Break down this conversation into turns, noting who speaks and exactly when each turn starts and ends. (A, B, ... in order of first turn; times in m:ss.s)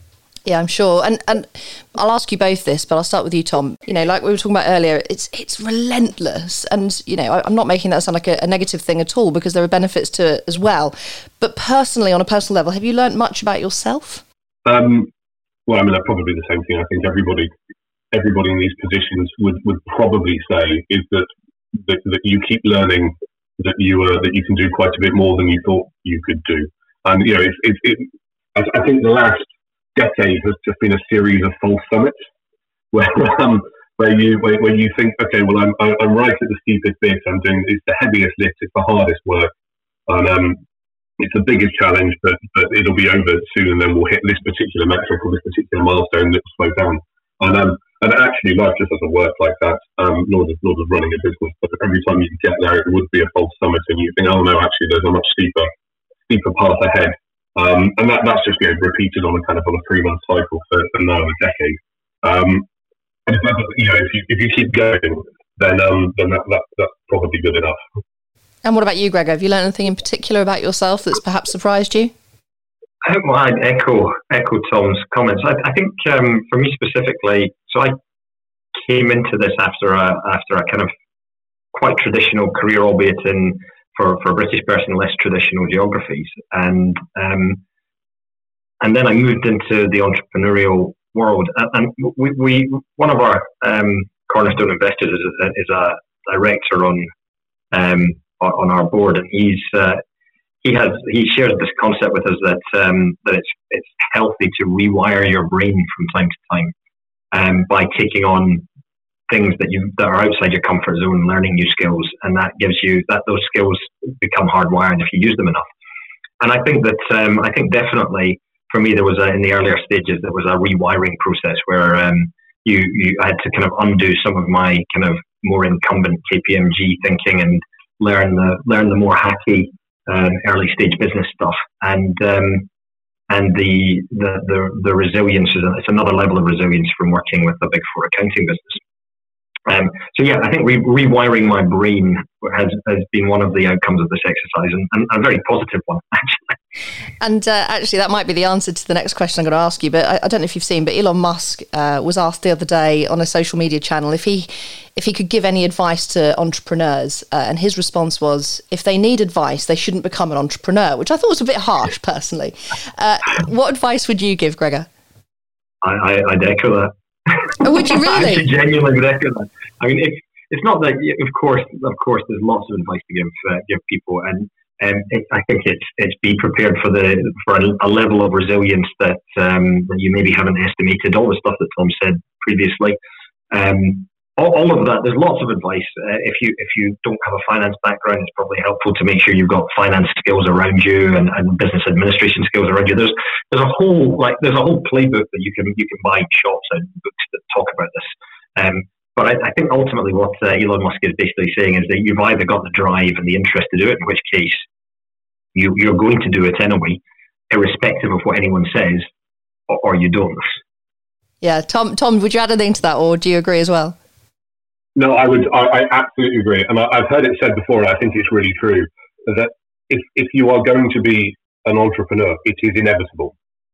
0:00.4-0:14.2 A
0:14.6-0:15.1 B
0:15.6-0:17.5 B
0:18.1-0:32.2 B
0:32.9-0:39.5 B
0:40.1-0:40.6 B
0:41.2-0:55.7 B
0:56.3-1:02.6 B
1:03.2-1:07.8 B
1:08.6-1:12.1 A
1:13.0-1:18.0 C
1:18.8-1:20.9 C
1:21.7-1:27.6 C
1:28.8-1:37.1 C
1:37.7-1:40.0 C
1:40.6-1:46.7 C
1:47.3-1:48.6 C
1:49.3-1:55.6 C
1:56.4-2:12.7 C
2:13.3-2:18.8 C
2:19.6-2:26.6 C
2:27.2-2:44.9 A
2:45.8-3:03.0 C
2:47.6-2:48.4 A
3:03.5-3:24.6 C
3:25.5-3:29.1 C
3:29.7-3:30.6 C
3:31.4-3:34.0 A
3:35.0-3:43.3 B